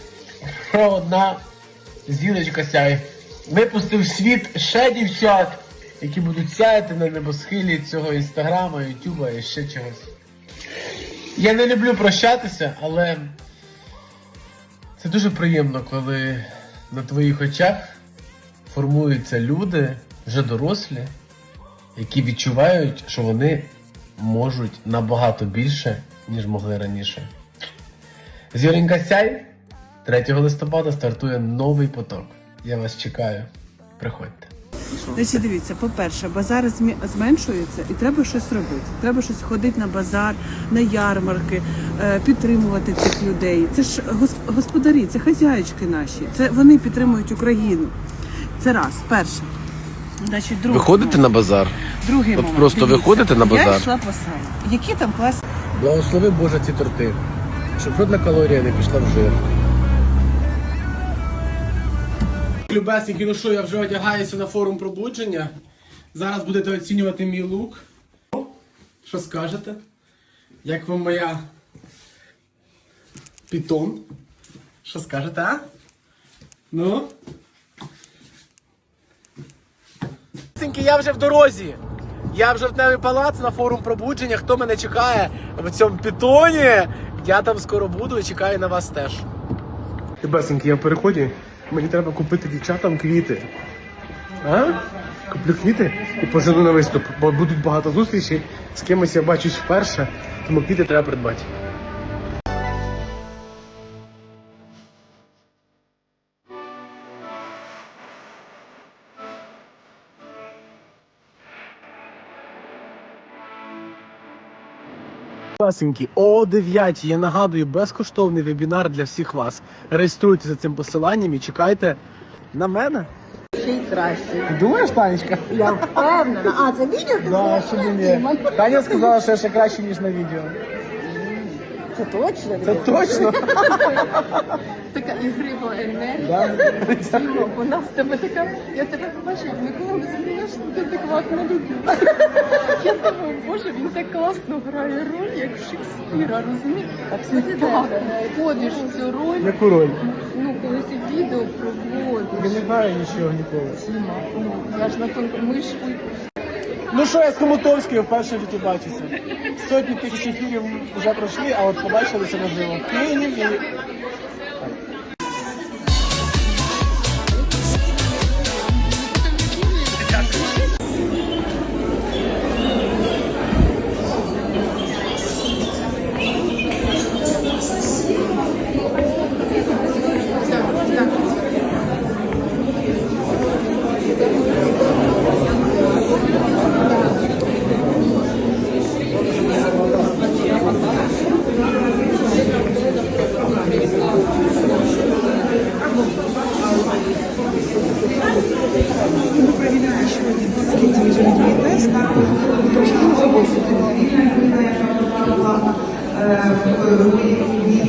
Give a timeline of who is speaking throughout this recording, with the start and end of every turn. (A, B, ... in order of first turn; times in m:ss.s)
0:00.5-0:01.4 A
0:02.0-0:10.1 A
0:11.4-0:13.4 A
0:15.0-0:17.8 A
0:18.7-0:21.1 A
0:22.0-0:27.3 A
0:28.5-0:29.5 A
0:30.0-0:35.4 A
0:35.1-0:47.9 B
0:48.6-0:49.5 B
0:50.2-0:51.3 B
0:50.7-0:51.8 A
0:52.0-0:55.4 B
0:52.3-0:53.9 A
0:55.7-0:57.2 A
0:57.8-0:59.4 A
1:02.7-1:05.5 A
1:06.1-1:08.4 A
1:09.0-1:09.8 A
1:10.6-1:11.4 A
1:13.5-1:14.0 A
1:14.8-1:15.6 A
1:16.7-1:17.1 A
1:20.5-1:21.8 A
1:22.3-1:29.2 A
1:30.2-1:33.5 A
1:34.4-1:41.5 A
1:55.6-2:02.0 A
2:02.5-2:03.1 A
2:03.6-2:04.5 C
2:04.5-2:06.1 A
2:05.5-2:09.1 C
2:07.2-2:10.6 A
2:11.0-2:13.8 C
2:12.6-2:14.1 A
2:14.9-2:32.6 D
2:16.2-2:17.2 A
2:27.1-2:28.1 C
2:29.4-2:30.0 A
2:32.3-2:33.8 A
2:33.8-2:36.1 D
2:36.9-2:43.6 A
2:49.9-2:50.5 A